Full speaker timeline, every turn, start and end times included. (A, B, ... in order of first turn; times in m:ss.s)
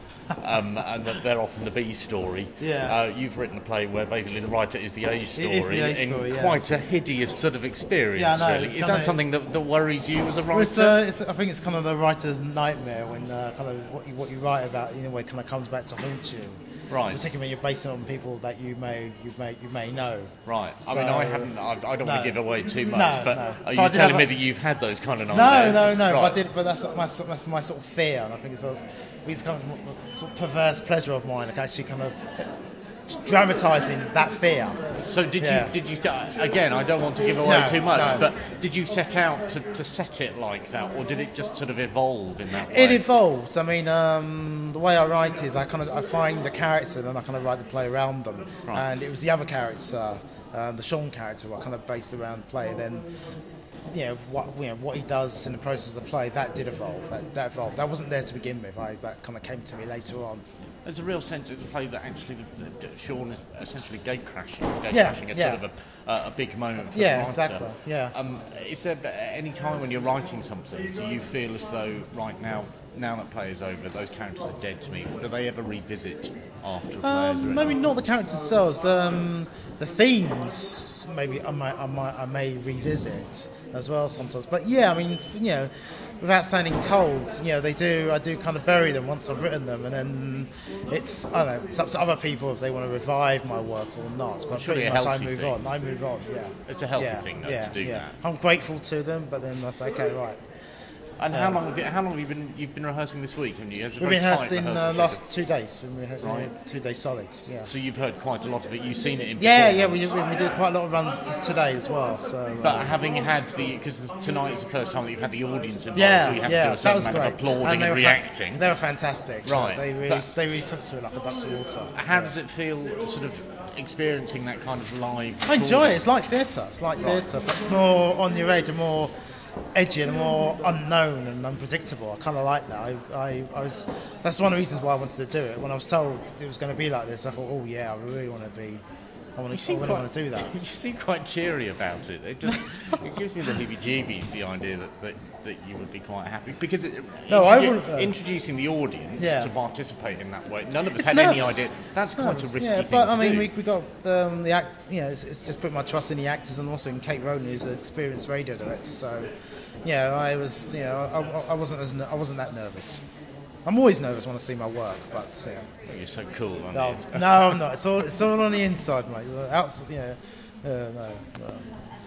0:00.3-0:11.0 A
0:02.6-0:03.0 B
0:05.4-0:06.7 B
0:08.2-0:09.2 B
0:10.5-0:24.3 B
0:16.9-0:17.2 A
0:20.4-0:26.4 A
0:25.3-0:32.5 B
0:33.1-0:34.8 B
0:35.0-0:43.0 A
0:35.4-0:35.7 B
0:37.4-0:38.2 B
0:42.6-0:53.0 B
0:53.9-1:00.4 B
1:00.8-1:17.8 A
1:04.9-1:05.6 B
1:06.9-1:08.1 B
1:17.0-1:40.4 B
1:34.5-1:35.5 A
1:36.7-1:38.2 A
1:41.2-1:45.2 A
1:41.3-1:41.6 B
1:44.0-1:47.7 B
1:46.2-1:46.5 A
1:47.6-1:50.1 A
1:49.4-1:53.0 B
1:52.6-1:58.6 A
1:55.9-2:02.3 B
1:59.4-2:00.2 A
2:01.9-2:06.1 A
2:05.5-2:09.1 B
2:07.0-2:07.2 A
2:09.7-2:18.8 B
2:19.4-2:20.5 B
2:19.5-2:33.5 A
2:27.3-2:28.1 B
2:29.2-2:29.5 B
2:30.9-2:39.3 B
2:39.8-2:43.0 B
2:43.6-2:45.7 B
2:45.9-2:47.6 A
2:46.7-2:51.7 B